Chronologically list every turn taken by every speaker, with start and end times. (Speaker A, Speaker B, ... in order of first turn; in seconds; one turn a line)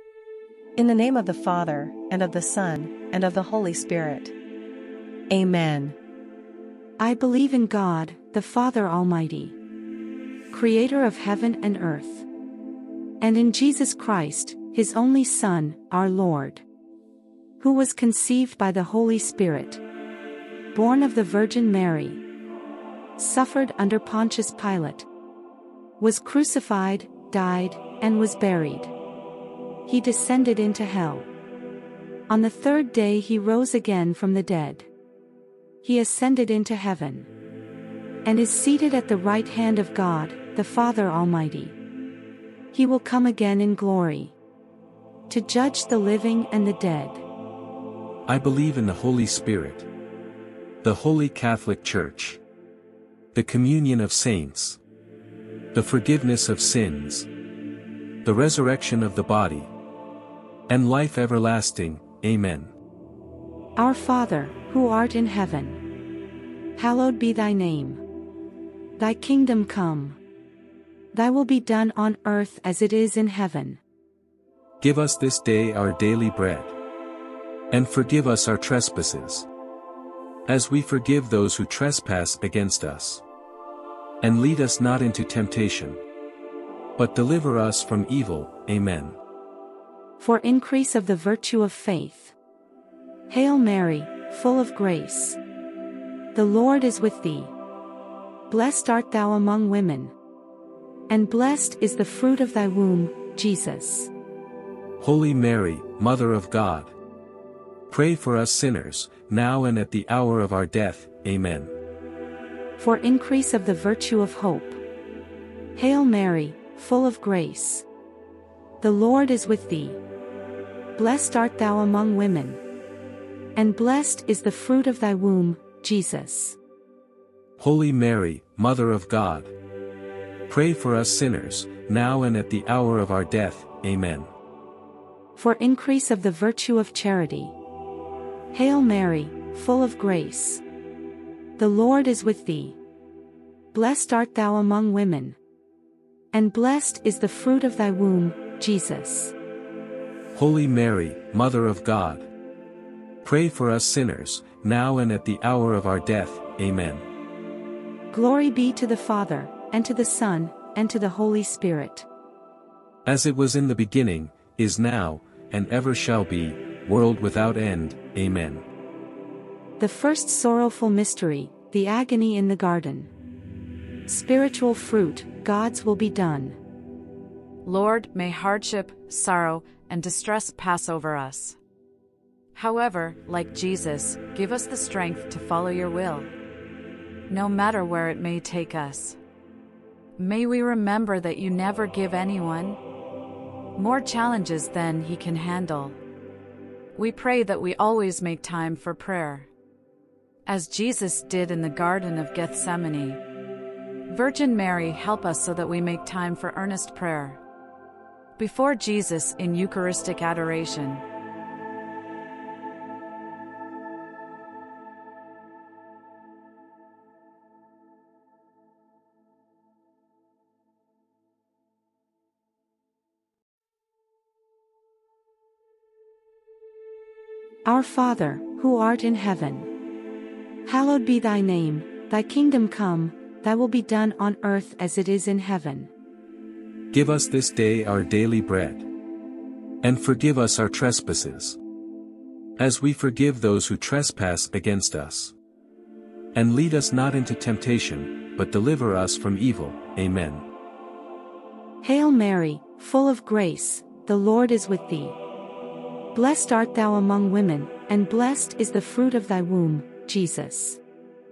Speaker A: 0.8-4.3
Speaker A: 5.3-6.0
Speaker B: 7.0-9.6
Speaker B: 10.5-12.2
Speaker B: 13.2-16.6
Speaker B: 17.6-19.8
Speaker B: 20.7-22.2
Speaker B: 23.2-25.1
Speaker B: 26.0-28.9
Speaker B: 29.9-31.3
Speaker B: 32.3-34.9
Speaker B: 35.8-37.3
Speaker B: 38.2-41.8
Speaker B: 42.7-44.3
Speaker B: 45.3-47.2
Speaker C: 48.3-49.9
Speaker C: 50.8-52.4
Speaker C: 53.3-54.8
Speaker C: 55.7-57.3
Speaker C: 58.2-59.7
Speaker C: 60.7-62.7
Speaker B: 63.8-65.8
Speaker B: 66.8-68.0
Speaker B: 69.0-70.2
Speaker B: 71.1-73.8
Speaker C: 74.8-76.8
Speaker C: 77.7-79.5
Speaker C: 80.5-83.2
Speaker C: 84.2-86.0
Speaker C: 87.0-89.2
Speaker B: 90.2-92.3
Speaker B: 93.3-95.4
Speaker B: 96.3-97.5
Speaker B: 98.5-100.1
Speaker B: 101.1-104.1
Speaker C: 105.0-106.9
Speaker C: 107.9-111.7
Speaker B: 112.8-114.8
Speaker B: 115.8-117.8
Speaker B: 118.8-120.0
Speaker B: 121.0-122.6
Speaker B: 123.5-126.6
Speaker C: 127.6-129.5
Speaker C: 130.5-134.3
Speaker B: 135.3-137.5
Speaker B: 138.5-140.6
Speaker B: 141.6-142.8
Speaker B: 143.7-145.4
Speaker B: 146.3-149.3
Speaker C: 150.3-152.3
Speaker C: 153.2-157.1
Speaker B: 158.1-162.1
Speaker C: 163.0-168.6
Speaker B: 169.8-173.1
Speaker B: 174.1-176.6
Speaker D: 177.6-181.6
Speaker D: 182.5-186.3
Speaker D: 187.3-189.2
Speaker D: 190.2-192.8
Speaker D: 193.8-196.0
Speaker D: 196.9-199.5
Speaker D: 200.4-203.2
Speaker D: 204.1-207.4
Speaker D: 208.4-211.0
Speaker B: 227.6-229.7
Speaker B: 230.7-235.9
Speaker C: 236.9-238.9
Speaker C: 239.8-241.6
Speaker C: 242.6-245.3
Speaker C: 246.3-250.4
Speaker B: 251.8-255.2
Speaker B: 256.1-260.8